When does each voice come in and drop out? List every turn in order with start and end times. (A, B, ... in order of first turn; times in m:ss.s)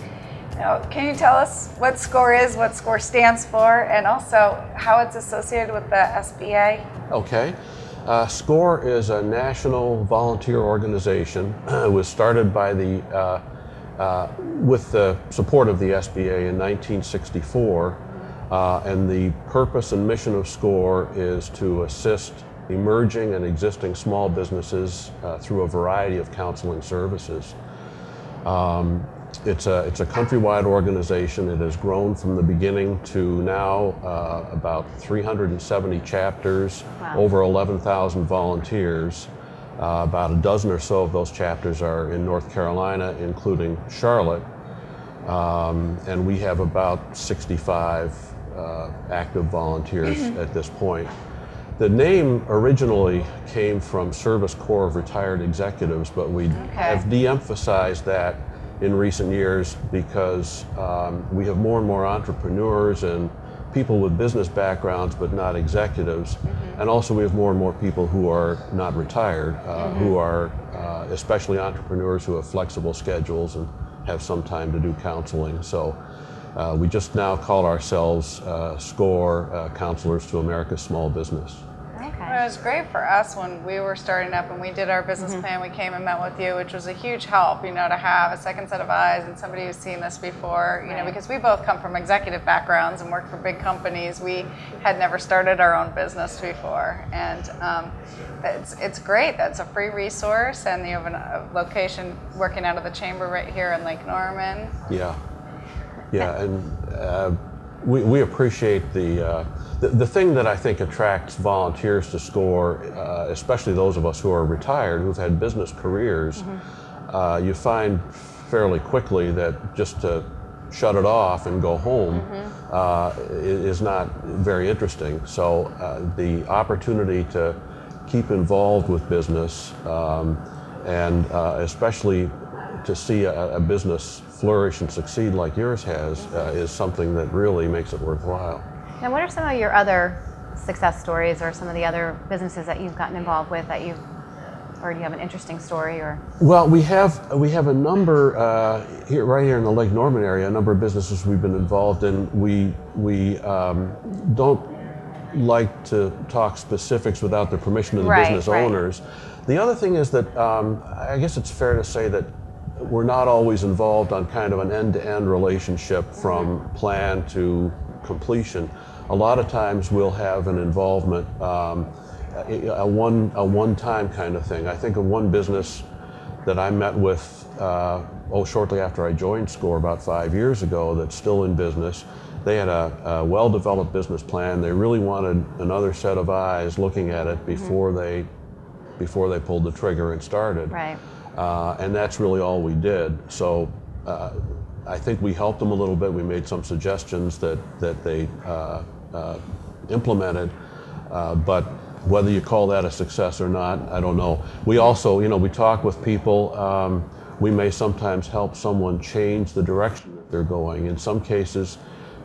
0:00.6-0:06.8 A
0:07.1-0:13.4 B
0:14.0-0:27.5 B
0:28.4-0:44.4 B
0:45.2-0:51.1 B
0:51.8-1:16.0 B
0:56.5-0:57.0 C
0:56.6-0:57.0 A
1:09.8-1:10.1 A
1:16.6-1:21.6 B
1:22.0-1:22.4 C
1:22.2-1:44.7 A
1:25.2-1:25.4 C
1:30.9-1:31.2 C
1:44.9-1:45.2 B
1:46.1-1:56.4 B
1:57.1-2:18.6 B
2:02.1-2:02.5 A
2:19.0-2:24.0 C
2:24.8-2:26.2 C
2:26.4-2:34.7 B
2:35.3-2:55.8 B
2:38.0-2:38.7 C
2:56.4-3:08.3 B
3:09.0-3:10.8 B
3:10.7-3:11.0 C
3:11.4-3:20.5 B
3:21.1-3:31.8 B